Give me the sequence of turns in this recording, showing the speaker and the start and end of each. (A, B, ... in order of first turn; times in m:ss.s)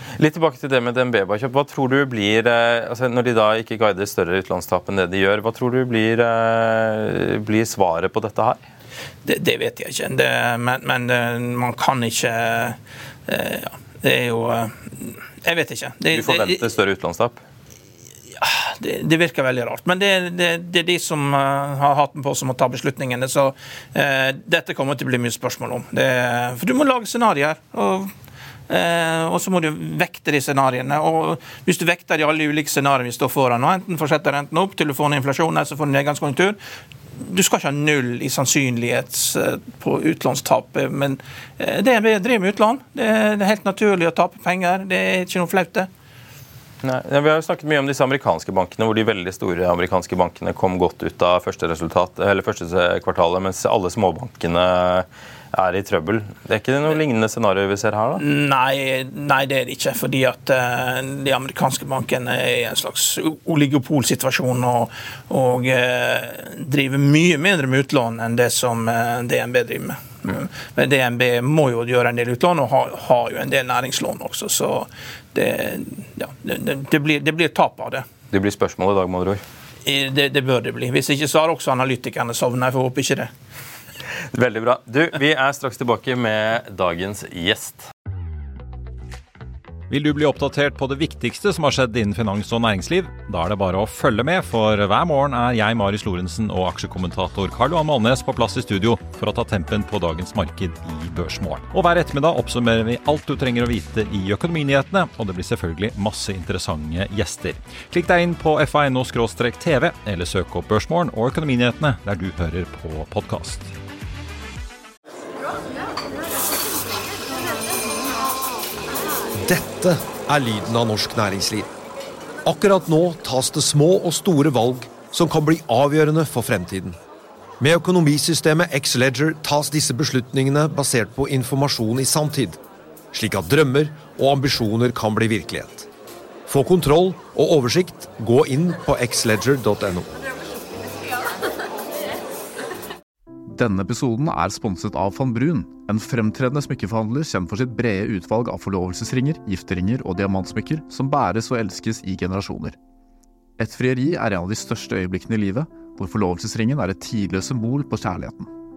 0:00.2-0:08.6 A
0:09.2-0:16.6 B
0:16.1-0:17.4 A
0:18.4-0:28.1 B
0:28.7-0:36.6 B
0:37.2-0:45.9 B
0:46.8-0:58.2 A
0:58.2-1:18.0 B
1:18.3-1:19.4 A
1:19.8-1:23.3 B
1:24.3-1:27.8 A
1:29.9-1:53.7 C
1:59.4-2:01.7 D
2:02.4-2:07.0 D
2:07.6-2:12.6 D
2:13.1-2:15.9 D
2:16.5-2:20.1 D
2:23.5-2:32.8 E
2:33.6-2:38.5 E